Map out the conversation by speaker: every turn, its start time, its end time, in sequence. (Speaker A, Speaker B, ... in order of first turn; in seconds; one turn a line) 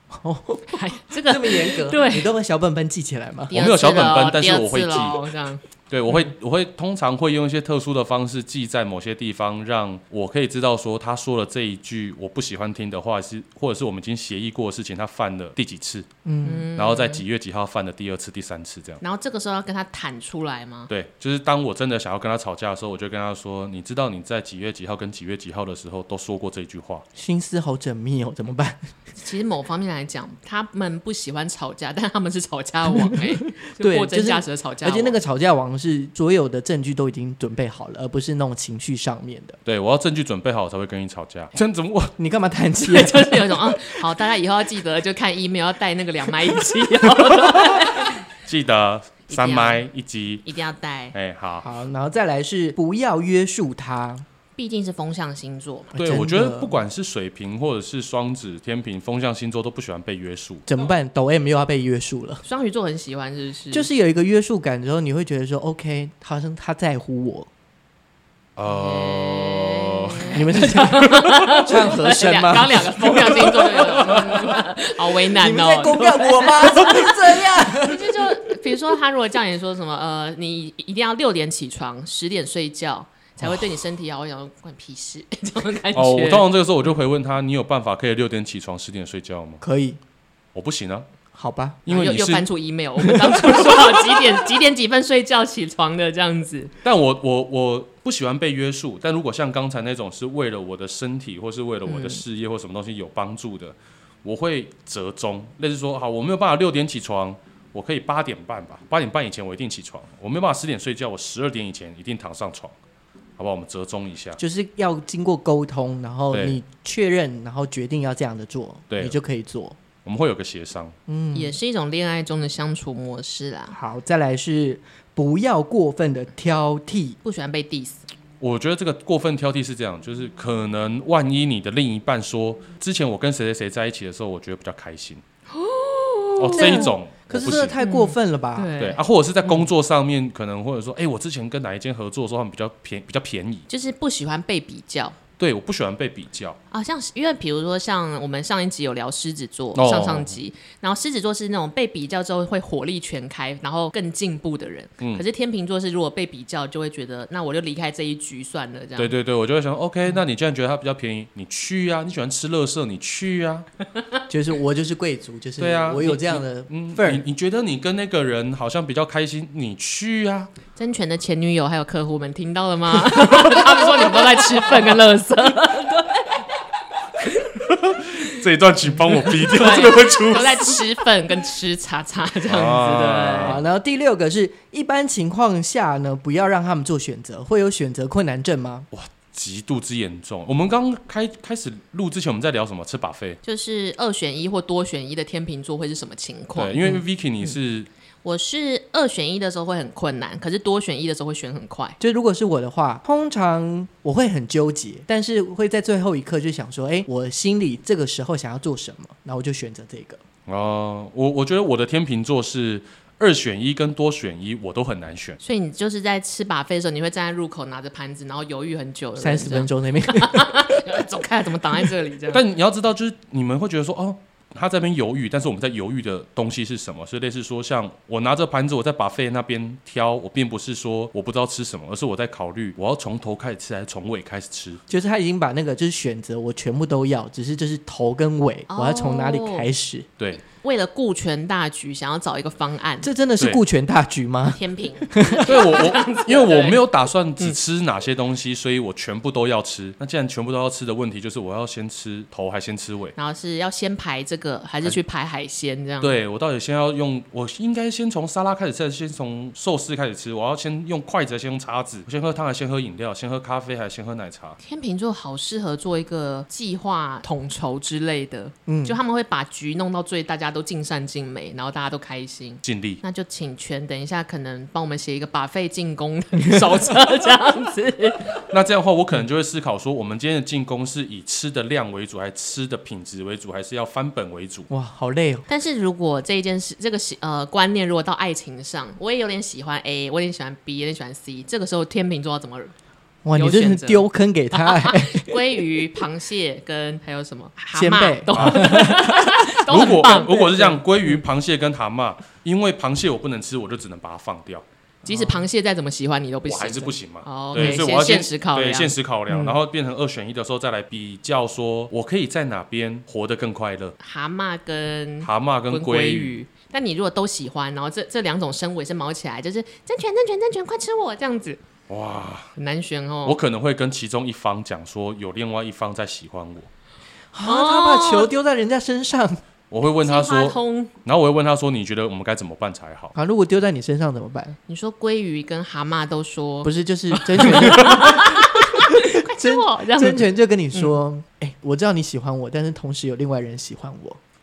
Speaker A: 0.1-3.5
Speaker B: 0.7-2.3
Speaker B: 3.5-5.6
Speaker C: 3.5-5.2
Speaker C: 5.9-16.1
Speaker A: 16.2-16.7
Speaker B: 16.4-17.2
Speaker C: 16.7-19.0
Speaker B: 19.0-20.9
Speaker C: 20.9-27.0
Speaker A: 27.1-28.9
Speaker B: 29.1-35.2
Speaker A: 33.8-39.6
Speaker C: 39.6-42.1
Speaker A: 42.2-43.8
Speaker B: 42.8-48.2
Speaker C: 47.5-47.7
Speaker C: 48.4-50.4
Speaker B: 49.3-49.8
Speaker B: 50.4-51.1
Speaker C: 51.1-51.6
Speaker A: 51.6-54.2
Speaker B: 54.5-55.9
Speaker A: 55.9-56.8
Speaker C: 55.9-60.6
Speaker A: 60.7-62.4
Speaker B: 62.4-63.9
Speaker A: 63.7-67.5
Speaker C: 68.5-71.5
Speaker B: 68.7-77.1
Speaker A: 70.3-74.5
Speaker A: 75.3-78.3
Speaker B: 77.8-86.5
Speaker C: 85.9-89.6
Speaker A: 89.6-90.0
Speaker C: 90.5-91.1
Speaker A: 91.3-91.8
Speaker C: 91.8-92.5
Speaker B: 91.9-96.7
Speaker A: 93.1-93.7
Speaker C: 96.8-112.7
Speaker B: 101.9-102.2
Speaker C: 113.4-114.4
Speaker A: 114.4-119.8
Speaker C: 116.3-116.6
Speaker C: 118.9-119.2
Speaker C: 120.0-120.9
Speaker A: 121.1-121.6
Speaker B: 121.3-123.8
Speaker A: 123.7-127.2
Speaker B: 127.2-128.1
Speaker C: 128.4-135.2
Speaker B: 135.5-136.9
Speaker C: 136.4-137.8
Speaker A: 136.6-138.7
Speaker B: 137.8-139.7
Speaker C: 138.8-143.7
Speaker B: 143.7-145.2
Speaker C: 145.4-146.6
Speaker B: 146.7-159.1
Speaker C: 149.7-150.3
Speaker C: 159.0-163.7
Speaker A: 164.3-167.2
Speaker C: 165.6-170.5
Speaker B: 170.8-176.5
Speaker B: 177.2-177.5
Speaker C: 177.6-180.8
Speaker B: 179.1-183.6
Speaker C: 182.5-183.6
Speaker A: 183.4-188.9
Speaker C: 188.9-193.4
Speaker B: 193.4-197.0
Speaker C: 196.5-197.9
Speaker B: 198.2-202.0
Speaker A: 202.0-210.2
Speaker C: 210.5-215.4
Speaker B: 215.4-222.4
Speaker A: 219.2-220.5
Speaker C: 222.3-234.8
Speaker A: 234.9-240.1
Speaker B: 238.7-239.7
Speaker B: 240.4-243.1
Speaker A: 243.0-245.5
Speaker B: 244.5-246.8
Speaker C: 245.4-253.2
Speaker B: 253.2-256.1
Speaker C: 256.0-264.6
Speaker B: 264.6-278.3
Speaker A: 268.7-269.0
Speaker C: 272.6-273.0
Speaker C: 278.5-284.7
Speaker A: 284.7-285.4
Speaker B: 285.5-292.7
Speaker A: 293.2-295.4
Speaker B: 293.4-300.7
Speaker A: 297.7-299.4
Speaker C: 299.7-304.6
Speaker A: 305.0-305.4
Speaker B: 305.1-309.5
Speaker C: 306.5-313.9
Speaker B: 314.0-321.6
Speaker C: 315.2-316.3
Speaker C: 321.9-322.5
Speaker B: 322.6-323.4
Speaker C: 323.2-326.7
Speaker A: 327.3-329.4
Speaker B: 327.4-328.3
Speaker C: 329.7-333.1
Speaker B: 330.0-330.9
Speaker A: 333.1-334.6
Speaker B: 334.7-340.9
Speaker A: 336.6-344.2